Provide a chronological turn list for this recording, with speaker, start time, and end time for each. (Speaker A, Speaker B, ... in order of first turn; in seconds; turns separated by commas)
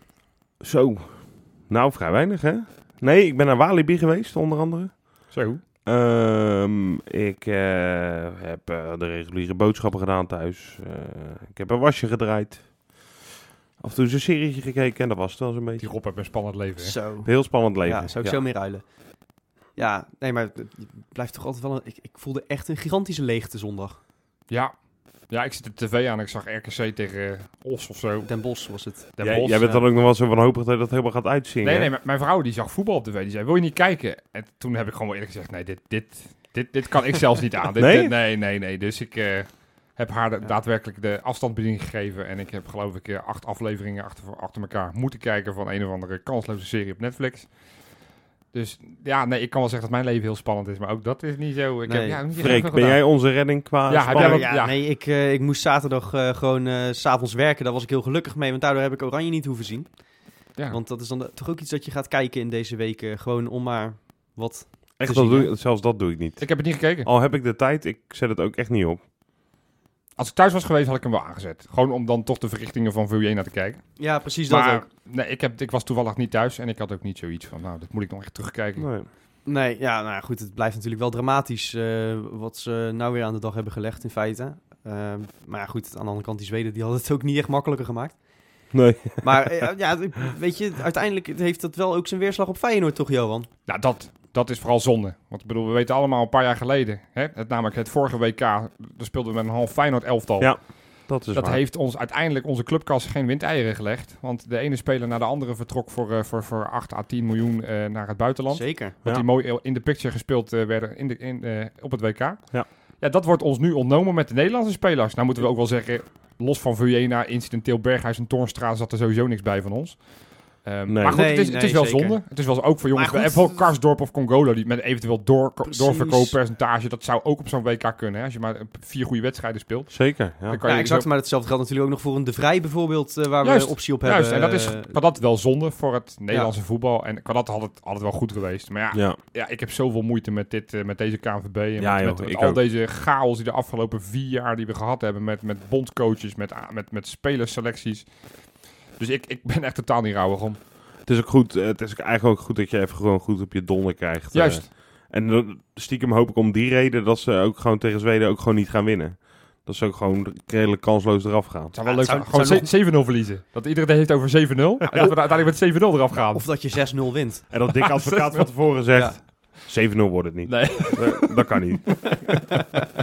Speaker A: 0.6-5.2, Speaker B: 5.3-5.6, Speaker A: 5.8-12.7, Speaker A: 13.8-15.9, Speaker B: 15.8-17.0, Speaker C: 16.8-17.3, Speaker A: 17.2-18.4, Speaker C: 17.8-18.8, Speaker C: 19.8-24.0, Speaker B: 25.3-28.3, Speaker C: 28.2-29.1, Speaker B: 29.2-29.9, Speaker A: 29.2-31.9, Speaker B: 31.6-47.5, Speaker A: 37.8-38.1, Speaker B: 48.5-53.2, Speaker C: 51.9-52.2, Speaker A: 52.4-54.5, Speaker B: 53.9-54.8, Speaker C: 54.1-59.9, Speaker C: 60.7-65.5, Speaker A: 65.0-69.0, Speaker B: 66.4-67.1, Speaker B: 70.2-78.9, Speaker C: 74.0-74.8, Speaker A: 78.8-79.1, Speaker C: 79.5-88.2, Speaker A: 88.7-89.7, Speaker C: 89.2-93.5, Speaker B: 93.7-100.8, Speaker A: 100.4-101.6, Speaker B: 101.3-120.1, Speaker C: 108.5-109.0, Speaker B: 120.6-131.1, Speaker A: 120.9-121.3, Speaker C: 121.1-122.2, Speaker C: 122.9-123.7, Speaker C: 125.7-126.4, Speaker A: 129.9-130.6, Speaker C: 130.7-135.0, Speaker B: 133.4-148.1, Speaker A: 138.9-139.2, Speaker A: 141.8-142.6, Speaker B: 149.0-150.6, Speaker A: 151.1-161.8, Speaker B: 154.3-154.7, Speaker B: 161.7-166.5, Speaker C: 161.8-162.7, Speaker C: 166.3-167.5, Speaker A: 167.5-172.3, Speaker B: 167.8-168.5, Speaker C: 168.9-169.2, Speaker B: 170.5-171.5, Speaker C: 172.3-172.9